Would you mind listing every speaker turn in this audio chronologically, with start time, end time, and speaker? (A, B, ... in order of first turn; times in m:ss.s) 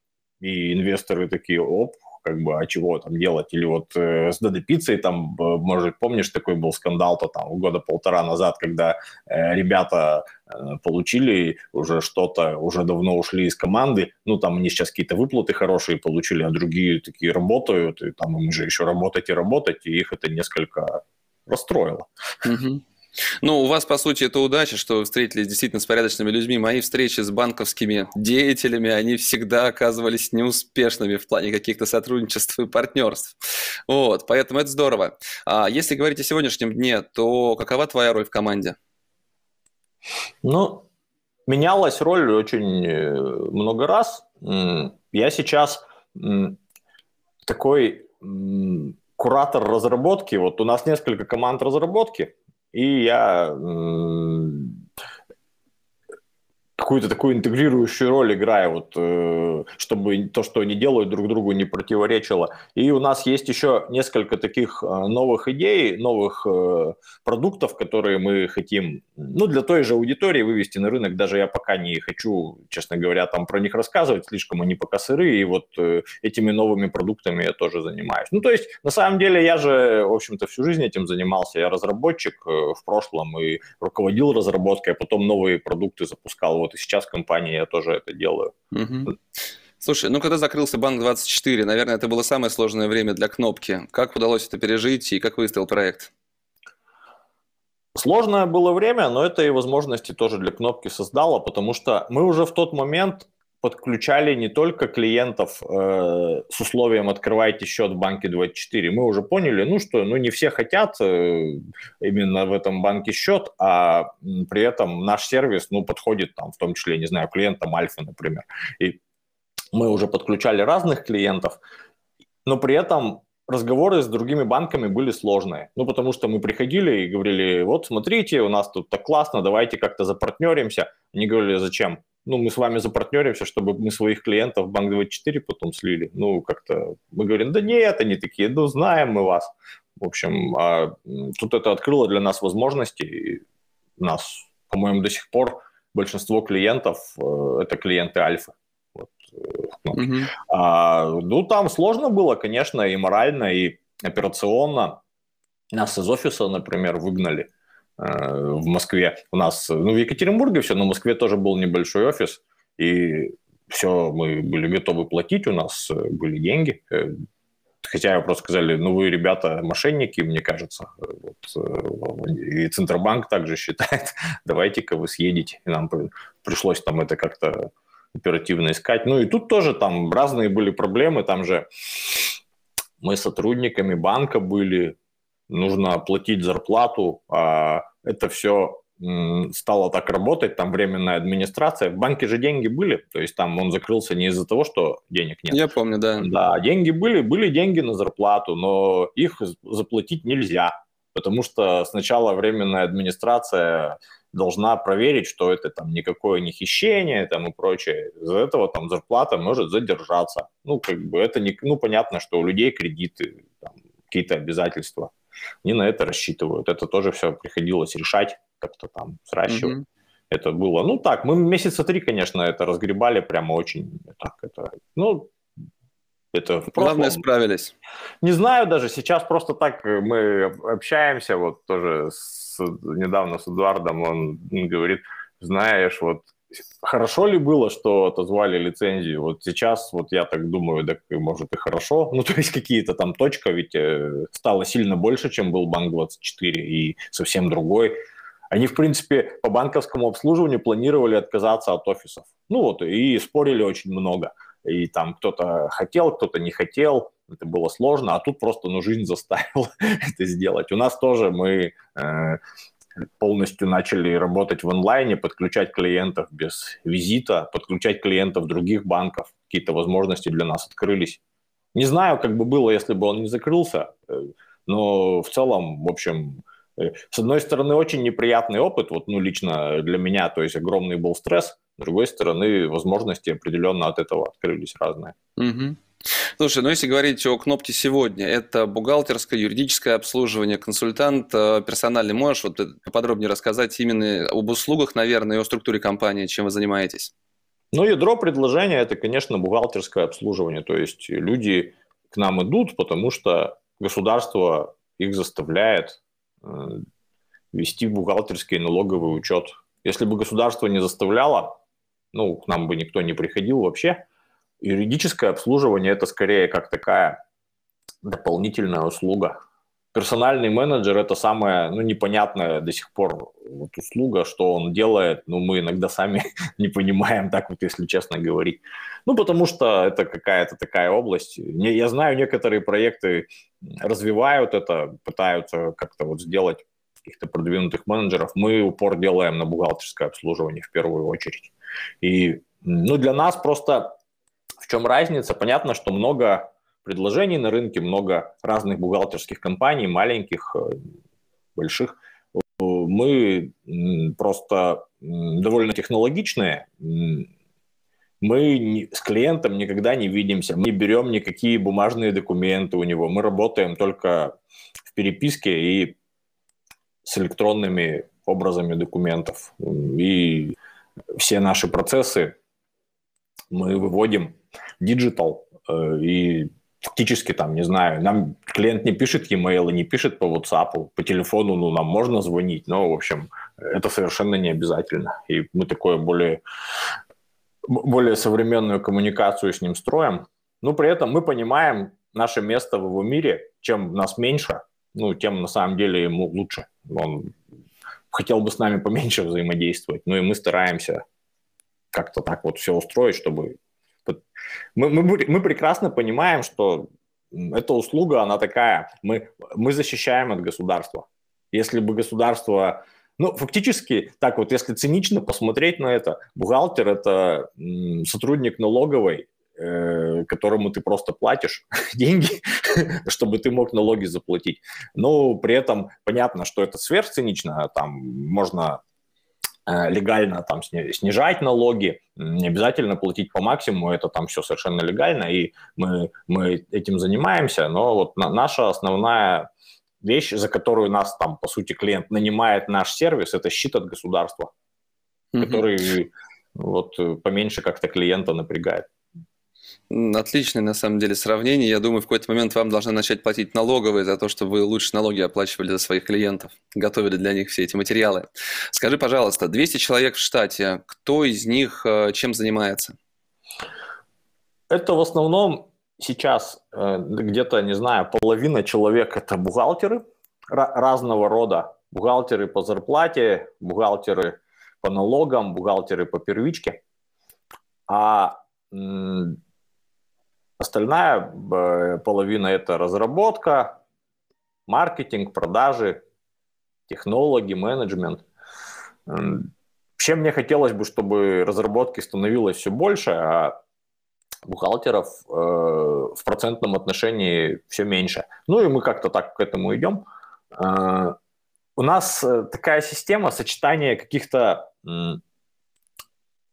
0:00.4-0:22.1 A
0:22.4-0:22.8 B
0:23.4-0:33.4 B
0:33.9-0:38.8 B
0:40.4-0:40.8 A
0:41.5-0:46.6 A
0:47.4-0:54.8 A
0:56.8-1:28.5 A
1:28.7-1:29.1 B
1:29.8-1:36.1 B
1:37.9-1:59.0 A
1:59.7-2:01.6 A
2:02.4-2:23.4 A
2:24.0-2:35.0 A
2:29.9-2:30.3 B
2:35.7-2:47.2 A
2:47.8-3:02.3 A
3:03.0-3:05.0 A
3:05.5-3:15.6 A
3:15.5-3:16.3 B
3:16.2-3:39.7 A
3:39.5-3:39.8 B
3:40.3-3:45.3 A
3:46.3-3:47.2 A
3:46.7-3:47.7 B
3:48.2-4:07.9 A
4:08.5-4:22.4 A
4:23.2-4:31.2 A
4:31.7-4:45.2 A
4:45.4-4:45.8 B
4:46.4-4:57.1 B
4:57.7-5:06.8 A
5:07.5-5:11.6 A
5:12.1-5:14.0 A
5:14.6-5:17.2 A
5:18.0-5:19.4 A
5:19.9-5:43.9 A
5:44.6-5:50.8 A
5:51.6-5:57.3 A
5:58.2-6:04.3 A
6:04.9-6:06.0 A
6:07.0-6:10.5 A
6:11.2-6:12.3 A
6:13.5-6:26.4 A
6:27.6-6:37.3 A
6:38.1-6:41.0 A
6:41.9-6:44.2 A
6:44.7-7:08.8 A
7:09.6-7:19.5 A
7:20.0-7:24.5 A
7:25.3-7:25.6 B
7:25.4-7:28.9 A
7:29.9-7:43.0 B
7:44.7-7:56.8 A
7:57.9-7:59.4 A
8:00.6-8:03.8 A
8:04.7-8:06.0 A
8:06.9-8:08.2 A
8:09.1-8:13.6 A
8:14.4-8:21.2 A
8:21.8-8:25.2 A